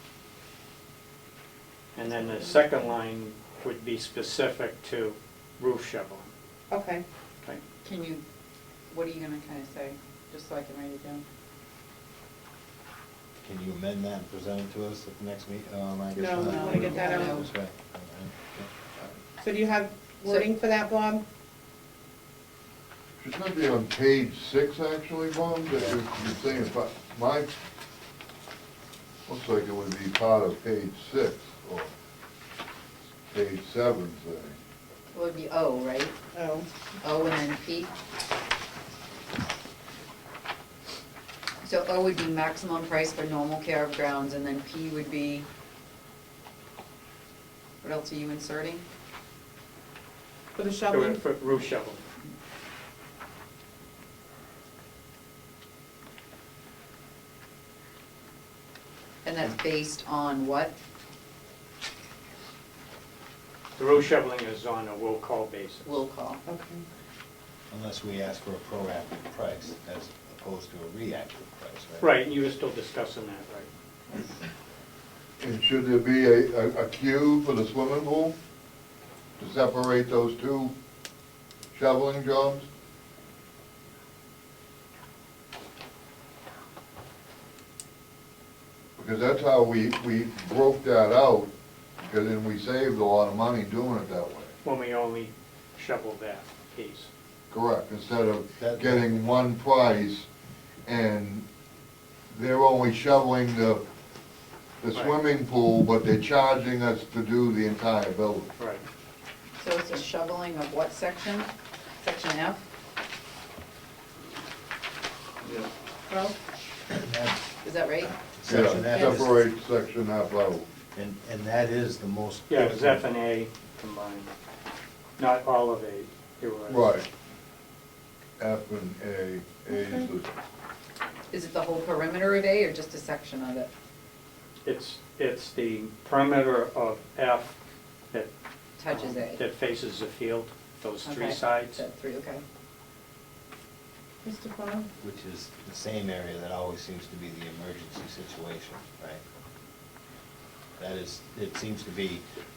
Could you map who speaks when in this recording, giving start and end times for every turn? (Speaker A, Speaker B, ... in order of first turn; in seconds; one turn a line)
Speaker A: 1.9-6.3
Speaker B: 2.1-2.6
Speaker C: 6.7-7.0
Speaker B: 7.8-8.2
Speaker B: 8.9-11.2
Speaker D: 13.4-18.7
Speaker C: 16.1-17.4
Speaker B: 16.4-17.5
Speaker C: 19.4-21.2
Speaker E: 23.2-27.5
Speaker E: 29.3-31.9
Speaker E: 33.3-34.6
Speaker B: 35.1-36.2
Speaker C: 36.3-36.7
Speaker B: 37.0-37.9
Speaker B: 41.6-45.5
Speaker B: 47.8-48.9
Speaker C: 50.5-51.2
Speaker A: 50.9-52.0
Speaker B: 59.2-60.8
Speaker A: 63.8-66.0
Speaker B: 65.8-66.4
Speaker C: 66.5-66.8
Speaker D: 67.7-72.1
Speaker A: 72.0-73.7
Speaker E: 75.4-78.4
Speaker E: 79.4-80.7
Speaker E: 81.7-82.7
Speaker E: 89.0-94.6
Speaker A: 94.6-97.1
Speaker E: 97.5-100.3
Speaker D: 98.6-99.2
Speaker E: 100.8-101.5
Speaker E: 102.3-103.8
Speaker E: 104.8-108.5
Speaker A: 108.6-108.8
Speaker B: 109.6-112.6
Speaker C: 116.1-116.3
Speaker D: 116.9-117.4
Speaker B: 117.6-118.1
Speaker D: 118.0-119.4
Speaker E: 118.5-120.7
Speaker D: 120.9-123.0
Speaker A: 122.5-124.3
Speaker A: 125.2-127.0
Speaker E: 126.7-127.1
Speaker E: 128.4-130.4
Speaker C: 129.7-130.1
Speaker B: 131.3-133.7
Speaker A: 134.7-137.6
Speaker B: 138.8-139.4
Speaker A: 138.9-141.8
Speaker B: 141.0-142.4
Speaker C: 144.2-144.9
Speaker D: 145.0-149.2
Speaker D: 150.8-152.2